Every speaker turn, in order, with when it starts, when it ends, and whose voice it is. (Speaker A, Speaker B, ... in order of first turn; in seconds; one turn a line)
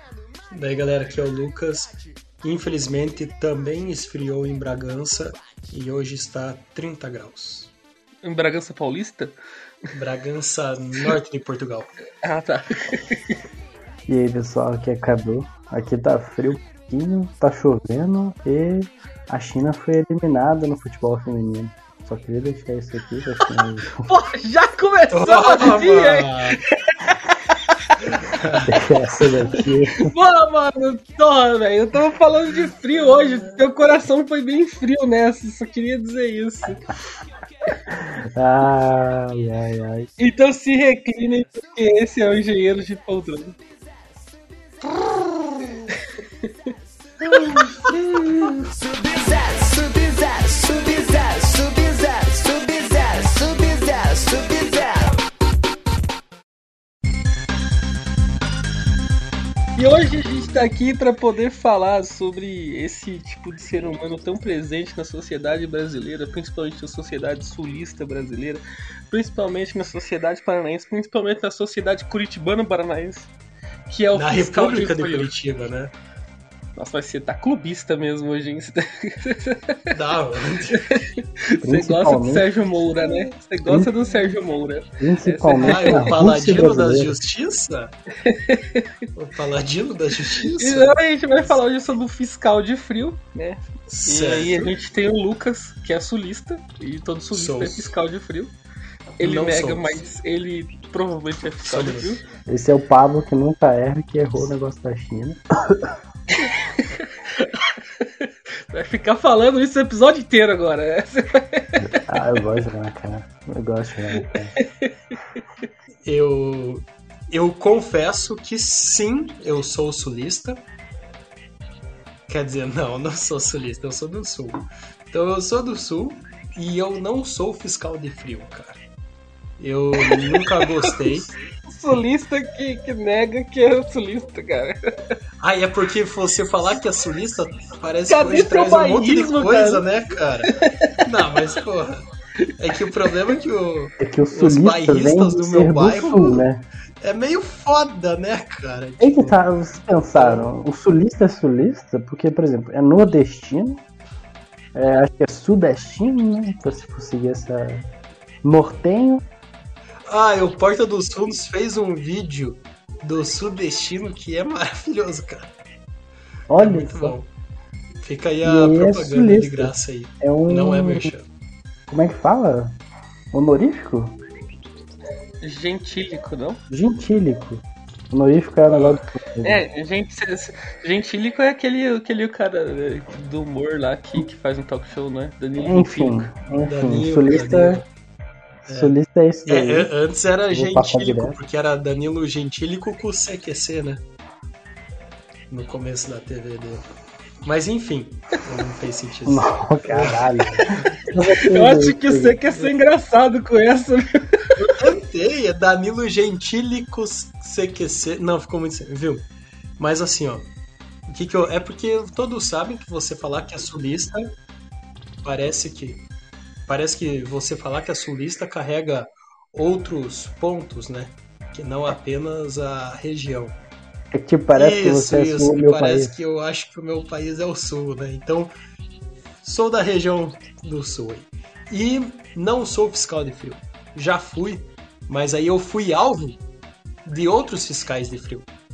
Speaker A: 0.5-7.7
Speaker B: 8.2-9.3
Speaker A: 9.9-11.9
Speaker B: 12.2-13.3
Speaker C: 14.1-24.1
Speaker B: 24.0-28.6
Speaker A: 25.1-26.6
Speaker A: 28.3-28.8
Speaker C: 28.6-30.1
Speaker B: 30.0-37.0
Speaker C: 37.9-40.1
Speaker B: 40.2-43.6
Speaker D: 45.2-45.9
Speaker B: 47.3-47.7
Speaker D: 47.4-55.2
Speaker B: 59.8-73.3
Speaker B: 73.9-75.3
Speaker A: 74.1-75.9
Speaker B: 76.8-79.9
Speaker A: 79.9-80.9
Speaker B: 80.7-86.2
Speaker C: 81.6-82.5
Speaker C: 83.7-83.9
Speaker C: 85.0-87.2
Speaker A: 85.6-87.9
Speaker B: 88.2-89.0
Speaker A: 89.2-91.0
Speaker B: 90.4-98.5
Speaker A: 93.9-94.7
Speaker A: 97.3-97.9
Speaker B: 99.2-102.2
Speaker A: 99.2-100.0
Speaker A: 101.6-102.2
Speaker C: 102.5-106.0
Speaker B: 106.3-112.2
Speaker C: 111.8-114.5
Speaker B: 114.6-115.2
Speaker A: 116.0-120.6
Speaker A: 122.3-128.8
Speaker A: 129.6-131.3
Speaker B: 130.0-131.0
Speaker B: 131.7-134.8
Speaker A: 135.4-142.0
Speaker B: 138.1-139.8
Speaker B: 140.5-140.9
Speaker A: 142.6-146.5
Speaker C: 144.0-146.7
Speaker A: 147.0-149.4
Speaker C: 149.0-153.8
Speaker A: 150.2-150.5
Speaker C: 154.8-157.9
Speaker C: 158.4-159.2
Speaker A: 160.1-165.5
Speaker C: 166.5-167.2
Speaker A: 166.6-167.3
Speaker A: 168.0-171.3
Speaker C: 168.4-171.1
Speaker C: 171.9-172.8
Speaker C: 173.3-174.2
Speaker B: 175.4-176.6
Speaker C: 176.7-179.7
Speaker A: 178.7-179.0
Speaker B: 179.4-186.3
Speaker C: 185.6-187.8
Speaker A: 186.6-187.8
Speaker A: 188.7-194.0
Speaker C: 188.7-189.9
Speaker C: 190.5-191.4
Speaker A: 195.5-196.8
Speaker A: 197.4-200.8
Speaker C: 199.3-202.4
Speaker B: 201.4-204.7
Speaker A: 204.6-209.3
Speaker A: 209.8-210.5
Speaker A: 211.1-214.3
Speaker A: 215.2-216.1
Speaker A: 216.7-223.6
Speaker C: 224.1-226.1
Speaker A: 224.5-228.5
Speaker A: 229.4-236.4
Speaker A: 237.1-238.5